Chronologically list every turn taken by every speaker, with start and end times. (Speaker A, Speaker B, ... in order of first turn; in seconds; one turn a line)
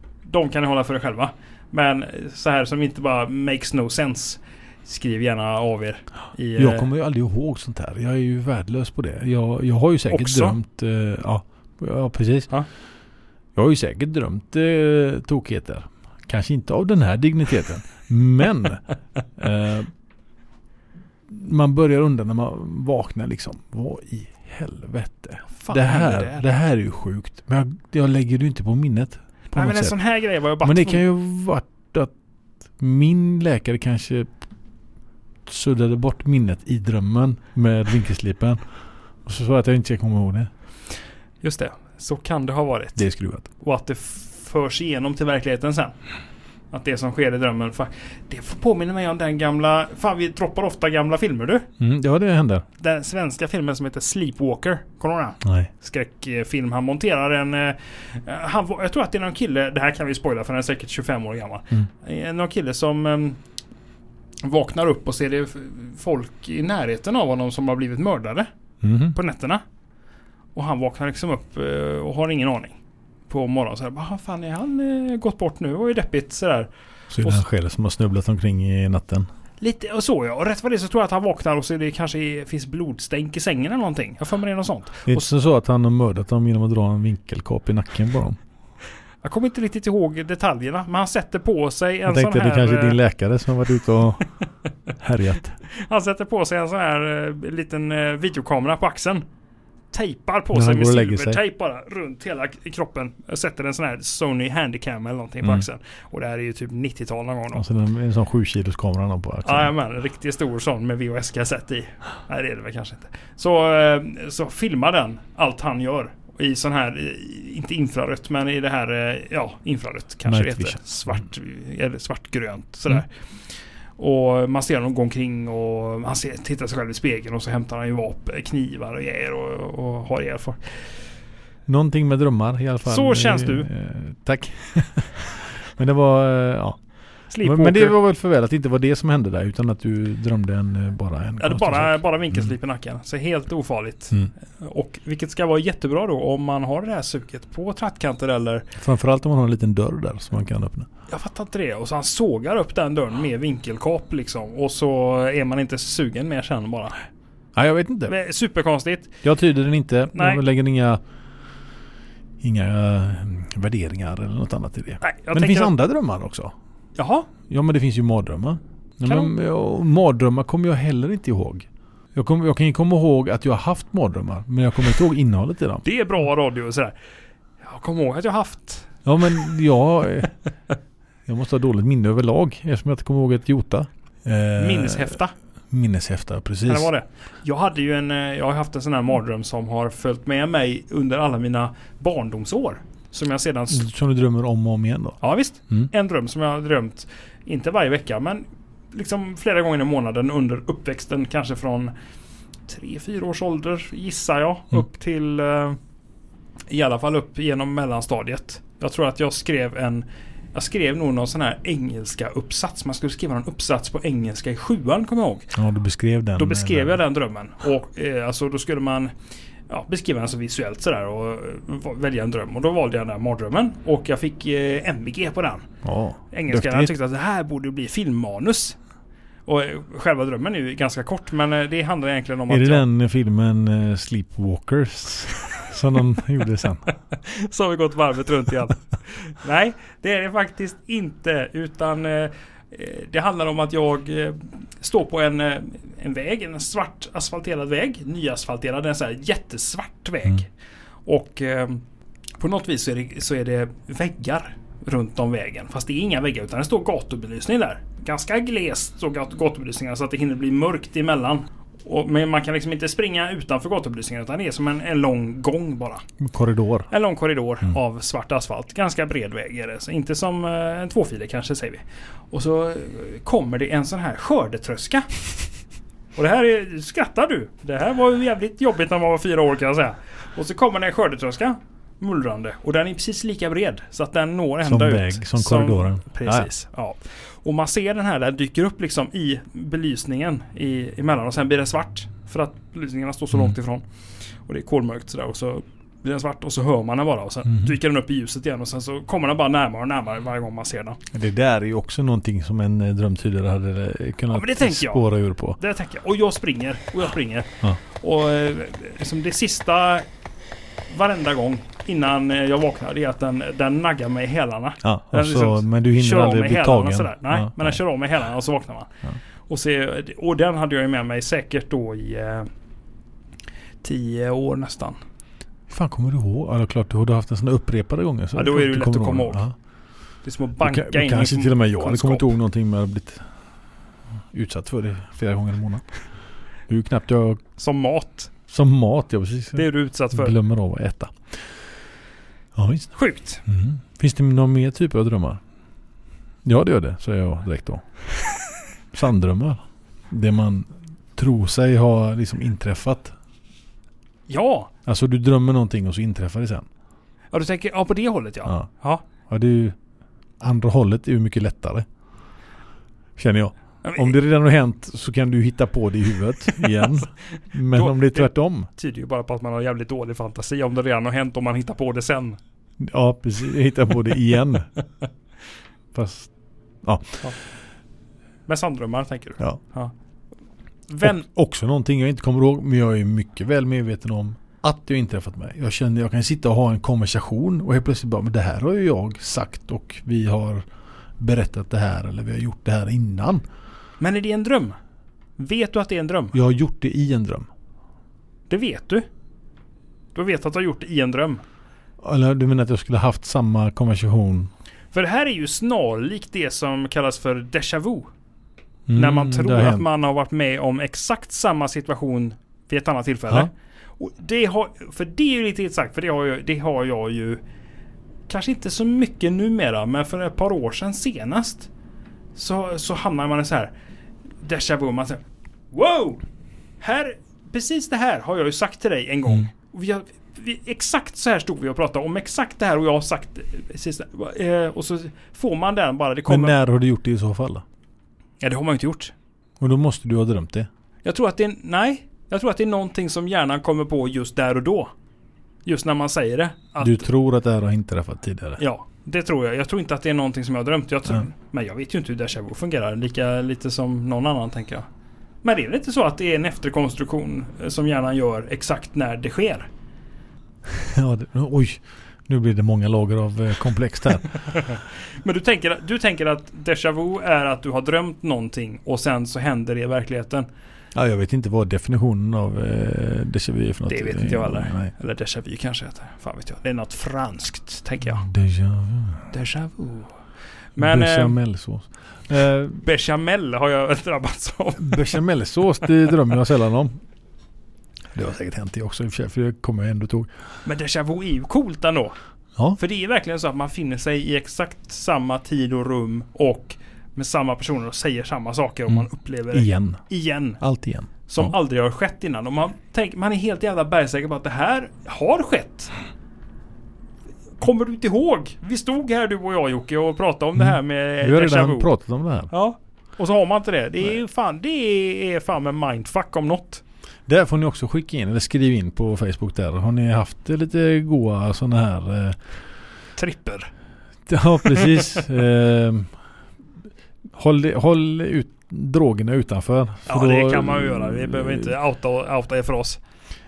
Speaker A: 0.2-6.9
Speaker B: 6.5-12.5
Speaker A: 10.1-10.6
Speaker B: 13.5-18.8
Speaker B: 19.4-19.9
Speaker B: 21.3-29.9
Speaker A: 25.6-26.4
Speaker A: 29.5-31.0
Speaker B: 30.6-32.1
Speaker B: 32.8-34.3
Speaker B: 35.5-38.6
Speaker B: 39.2-40.5
Speaker A: 41.4-43.0
Speaker B: 43.0-43.5
Speaker A: 43.6-45.9
Speaker A: 46.7-51.7
Speaker B: 51.8-52.6
Speaker A: 52.8-63.4
Speaker B: 55.4-55.7
Speaker A: 64.4-68.5
Speaker B: 68.8-69.2
Speaker A: 69.1-69.6
Speaker A: 70.5-76.7
Speaker B: 77.1-79.2
Speaker A: 79.6-85.3
Speaker B: 85.1-88.4
Speaker A: 89.2-93.0
Speaker B: 92.0-94.3
Speaker B: 95.0-95.6
Speaker A: 95.7-99.2
Speaker A: 99.9-107.6
Speaker B: 100.5-101.4
Speaker B: 107.5-109.7
Speaker A: 109.4-123.1
Speaker B: 120.2-120.8
Speaker A: 124.0-130.8
Speaker B: 131.7-136.8
Speaker A: 132.8-133.7
Speaker A: 137.3-138.0
Speaker B: 137.4-142.5
Speaker A: 141.4-148.7
Speaker B: 148.8-150.9
Speaker A: 151.1-157.0
Speaker B: 157.5-158.1
Speaker A: 158.1-159.2
Speaker B: 159.2-161.0
Speaker A: 160.1-160.4
Speaker B: 162.4-166.5
Speaker A: 165.0-165.7
Speaker A: 166.9-167.3
Speaker B: 167.5-175.8
Speaker A: 169.1-169.3
Speaker A: 175.8-176.9
Speaker A: 177.6-178.9
Speaker B: 179.0-180.3
Speaker B: 181.2-185.2
Speaker A: 184.6-185.3
Speaker B: 185.7-186.9
Speaker A: 186.7-193.8
Speaker B: 193.7-195.2
Speaker A: 195.2-201.9
Speaker A: 202.7-205.8
Speaker A: 206.7-215.5
Speaker B: 215.5-217.0
Speaker A: 216.4-219.1
Speaker A: 219.7-225.7
Speaker B: 225.8-226.9
Speaker A: 226.3-228.8
Speaker A: 229.4-232.8
Speaker B: 232.5-236.8
Speaker A: 237.1-250.5
Speaker A: 251.1-251.8
Speaker A: 252.4-266.1
Speaker B: 266.2-266.9
Speaker A: 266.9-275.1
Speaker A: 276.1-293.8
Speaker B: 284.6-286.5
Speaker A: 294.5-301.0
Speaker B: 301.1-305.6
Speaker A: 304.3-305.1
Speaker A: 305.6-310.1
Speaker A: 310.9-318.9
Speaker B: 314.8-317.8
Speaker A: 319.5-322.5
Speaker A: 323.8-325.0
Speaker B: 325.7-329.5
Speaker A: 328.3-329.4
Speaker A: 330.2-332.3
Speaker B: 330.6-333.2
Speaker B: 334.3-335.9
Speaker B: 336.7-337.4
Speaker A: 337.6-338.3
Speaker B: 338.5-341.3
Speaker A: 339.6-340.3
Speaker B: 342.5-342.9
Speaker A: 342.9-343.4
Speaker B: 343.4-345.4
Speaker B: 346.4-347.9
Speaker B: 348.9-349.6
Speaker B: 350.1-353.1
Speaker A: 354.3-354.7
Speaker B: 354.9-356.7
Speaker A: 357.3-359.0
Speaker B: 359.3-359.8
Speaker B: 360.4-361.8
Speaker B: 363.2-368.7
Speaker A: 363.8-364.1
Speaker A: 366.6-372.4
Speaker B: 372.8-374.7
Speaker B: 375.9-376.3
Speaker B: 376.8-377.2
Speaker A: 378.5-379.9
Speaker A: 380.9-381.2
Speaker B: 381.0-390.6
Speaker B: 391.2-393.4
Speaker A: 394.0-394.8
Speaker A: 395.4-396.3
Speaker B: 396.3-397.5
Speaker A: 398.5-399.1
Speaker A: 400.1-401.4
Speaker B: 402.0-404.5
Speaker A: 404.9-408.1
Speaker B: 408.9-409.9
Speaker A: 408.9-417.4
Speaker A: 418.3-421.7
Speaker A: 422.3-423.7
Speaker A: 424.4-426.2
Speaker A: 426.8-436.5
Speaker B: 436.3-437.6
Speaker A: 438.4-439.1
Speaker B: 439.6-440.7
Speaker A: 441.0-444.9
Speaker A: 445.6-447.0
Speaker B: 446.8-448.6
Speaker A: 448.6-454.9
Speaker A: 455.4-459.7
Speaker B: 460.6-464.4
Speaker A: 464.5-470.5
Speaker B: 470.9-474.9
Speaker A: 473.9-478.3
Speaker B: 478.1-479.3
Speaker A: 479.3-480.1
Speaker A: 480.8-481.4
Speaker B: 480.8-482.8
Speaker A: 482.8-485.2
Speaker B: 484.8-487.0
Speaker B: 488.1-490.3
Speaker A: 490.6-492.1
Speaker A: 492.8-500.6
Speaker B: 498.9-500.0
Speaker B: 500.6-501.5
Speaker A: 501.3-505.9
Speaker A: 507.6-511.9
Speaker B: 510.6-512.5
Speaker A: 512.5-516.8
Speaker B: 517.3-522.4
Speaker A: 523.2-523.7
Speaker B: 524.3-526.1
Speaker A: 524.8-525.1
Speaker B: 527.3-531.7
Speaker A: 530.1-533.0